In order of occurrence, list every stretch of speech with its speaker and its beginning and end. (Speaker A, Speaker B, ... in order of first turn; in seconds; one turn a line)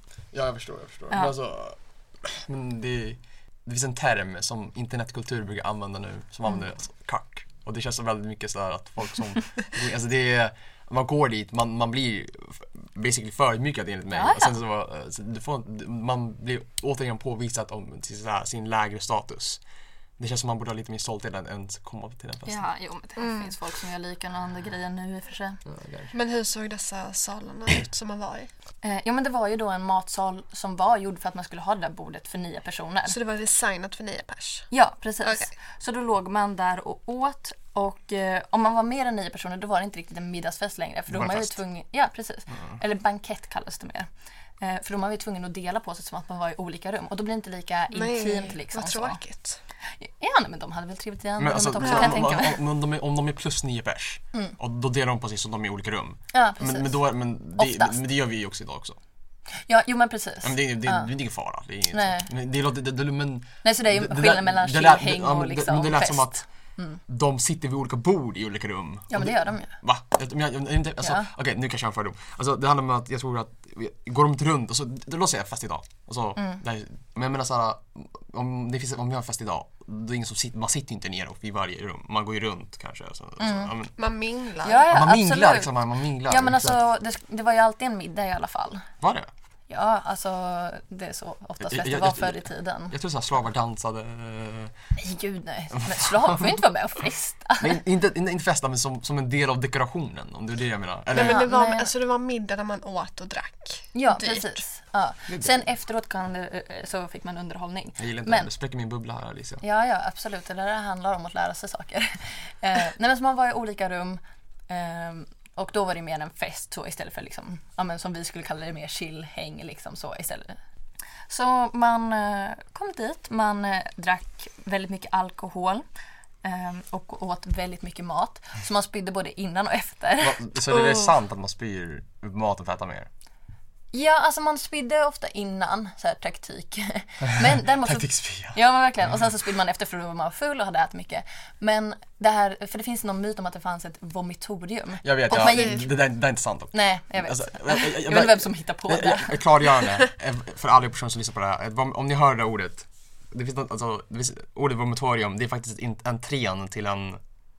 Speaker A: 0.3-19.6
Speaker B: 14.1-14.6
Speaker A: 20.2-22.7
Speaker B: 22.4-25.6
Speaker C: 23.2-23.5
Speaker A: 25.6-26.1
Speaker C: 26.1-28.5
Speaker B: 28.8-33.1
Speaker C: 33.1-34.7
Speaker B: 34.7-44.1
Speaker C: 35.2-35.5
Speaker A: 41.1-41.5
Speaker B: 44.6-49.2
Speaker C: 47.9-49.6
Speaker B: 50.0-52.6
Speaker A: 51.4-59.0
Speaker C: 51.8-52.2
Speaker B: 56.3-57.0
Speaker B: 57.6-58.0
Speaker B: 59.6-61.1
Speaker A: 60.4-66.4
Speaker B: 61.9-62.3
Speaker B: 63.6-67.0
Speaker A: 67.1-83.9
Speaker B: 69.1-69.7
Speaker B: 71.0-71.3
Speaker B: 83.4-83.7
Speaker C: 84.0-84.9
Speaker B: 84.6-85.7
Speaker A: 84.9-86.8
Speaker B: 86.3-88.8
Speaker A: 89.0-89.3
Speaker B: 89.7-92.9
Speaker A: 91.6-94.7
Speaker B: 95.0-97.8
Speaker A: 95.9-96.4
Speaker A: 97.6-101.4
Speaker C: 101.1-104.6
Speaker B: 101.2-101.9
Speaker B: 103.9-108.5
Speaker A: 108.0-109.6
Speaker B: 109.6-120.6
Speaker B: 121.3-125.9
Speaker B: 126.4-131.1
Speaker A: 130.2-133.1
Speaker B: 133.9-145.9
Speaker A: 137.8-138.6
Speaker A: 145.0-157.2
Speaker C: 145.3-145.9
Speaker B: 146.7-149.4